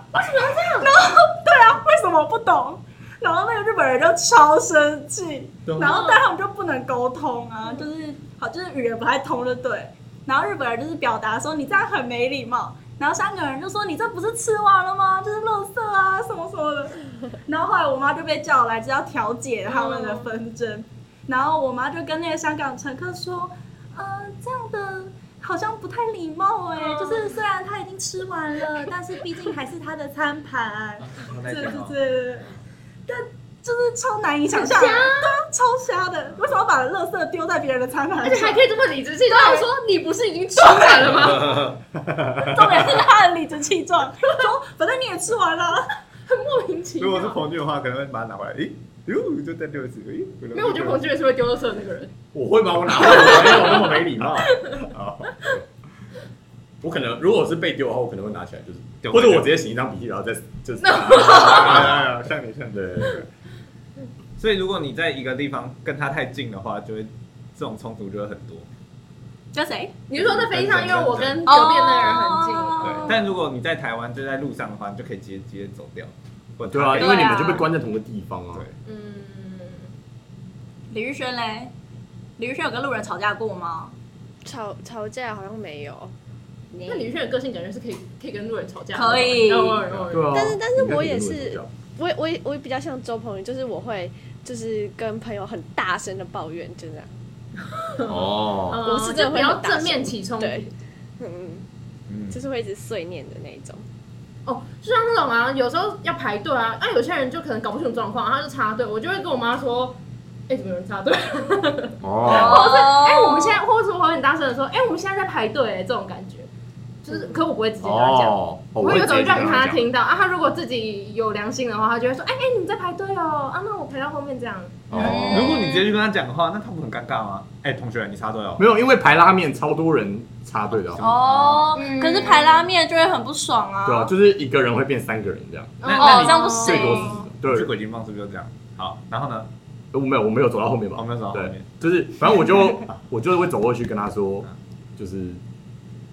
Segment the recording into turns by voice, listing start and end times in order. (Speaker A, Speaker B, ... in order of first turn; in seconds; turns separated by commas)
Speaker A: 0.1-0.9, Speaker B: 0.5-32.5, Speaker C: 5.7-6.0, Speaker A: 5.8-6.2, Speaker A: 19.6-20.3, Speaker A: 26.7-27.4, Speaker D: 31.1-31.9, Speaker B: 33.1-38.6, Speaker A: 34.5-35.4, Speaker A: 38.2-41.7, Speaker B: 39.3-39.6, Speaker B: 40.8-41.0, Speaker D: 42.0-42.8, Speaker B: 42.4-45.9, Speaker A: 46.3-47.4, Speaker D: 47.0-51.0, Speaker A: 50.5-52.1, Speaker C: 52.3-54.6, Speaker A: 53.0-54.8, Speaker D: 54.8-55.5, Speaker C: 56.8-62.1, Speaker D: 59.0-59.5, Speaker A: 60.8-61.8, Speaker D: 61.2-63.2, Speaker C: 62.7-63.2, Speaker D: 64.4-68.7, Speaker B: 69.5-70.0, Speaker A: 70.1-73.1, Speaker D: 70.1-71.4, Speaker B: 71.5-73.3, Speaker D: 72.8-77.4, Speaker C: 76.7-78.6, Speaker B: 76.9-77.7, Speaker A: 78.8-79.9, Speaker B: 80.9-81.7, Speaker B: 82.4-83.9, Speaker E: 84.4-86.1, Speaker E: 86.7-87.1, Speaker A: 86.9-90.4, Speaker B: 88.9-89.8, Speaker C: 90.1-91.7, Speaker E: 90.3-97.1, Speaker A: 97.7-100.7, Speaker C: 98.0-98.8, Speaker E: 98.8-100.6, Speaker E: 101.2-101.6, Speaker D: 102.1-102.4, Speaker E: 102.3-103.8, Speaker A: 104.5-110.0, Speaker A: 110.5-116.5, Speaker C: 112.0-112.7, Speaker B: 112.2-113.6, Speaker A: 117.0-124.9, Speaker C: 117.8-119.9, Speaker C: 124.9-125.6, Speaker B: 124.9-126.0, Speaker D: 124.9-128.6, Speaker C: 128.6-131.2, Speaker D: 130.9-131.7, Speaker B: 131.0-134.1, Speaker A: 131.7-132.7, Speaker C: 133.8-135.8, Speaker A: 135.8-137.2, Speaker D: 135.8-139.5, Speaker B: 135.9-137.2, Speaker C: 136.6-137.7, Speaker C: 139.9-145.4, Speaker D: 140.9-141.9